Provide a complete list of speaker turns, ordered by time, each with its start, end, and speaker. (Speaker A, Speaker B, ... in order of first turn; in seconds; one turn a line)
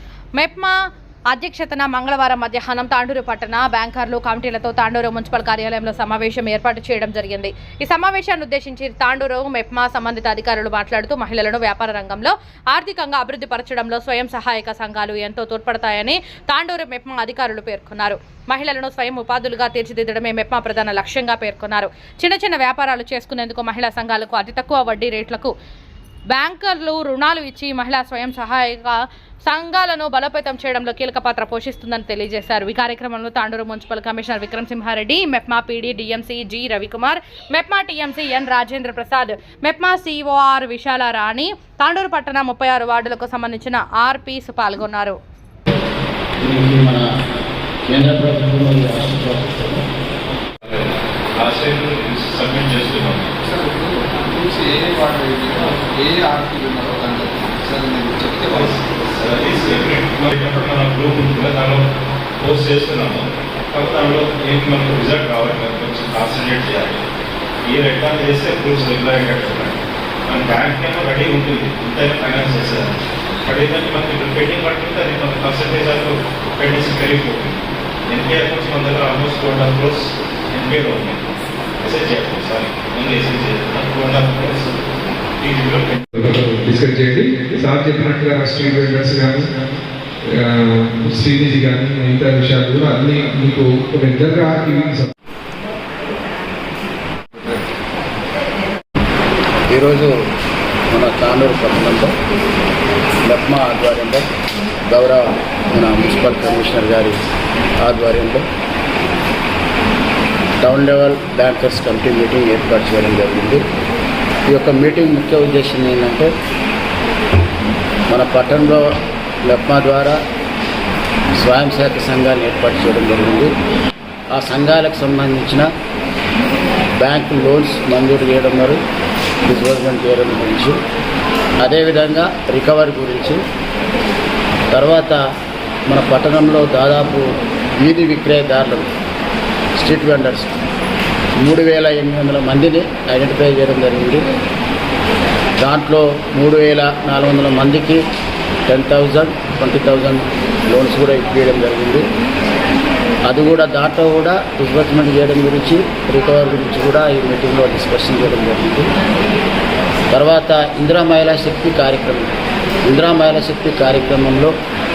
Speaker A: 0.3-0.8
Speaker A: 1.3-25.5
Speaker A: 26.3-45.2
Speaker B: 46.4-47.1
Speaker B: 47.9-49.9
Speaker C: 50.6-53.3
Speaker D: 53.4-58.8
Speaker C: 58.5-61.8
Speaker C: 62.4-67.0
Speaker C: 67.7-77.5
Speaker C: 78.1-81.2
Speaker C: 81.8-86.0
Speaker E: 86.1-89.5
Speaker E: 90.3-95.1
Speaker B: 99.7-100.1
Speaker B: 100.9-102.1
Speaker B: 103.2-104.3
Speaker B: 104.9-107.2
Speaker B: 107.8-108.5
Speaker B: 110.6-113.6
Speaker B: 114.5-116.3
Speaker B: 118.1-118.8
Speaker B: 119.5-120.2
Speaker B: 121.4-123.5
Speaker B: 124.3-125.7
Speaker B: 127.0-128.8
Speaker B: 129.5-130.8
Speaker B: 131.6-133.4
Speaker B: 134.7-135.2
Speaker B: 135.9-137.3
Speaker B: 137.8-138.9
Speaker B: 139.8-140.6
Speaker B: 141.4-144.3
Speaker B: 145.6-148.1
Speaker B: 148.7-152.1
Speaker B: 153.3-158.9
Speaker B: 160.1-162.3
Speaker B: 162.9-164.5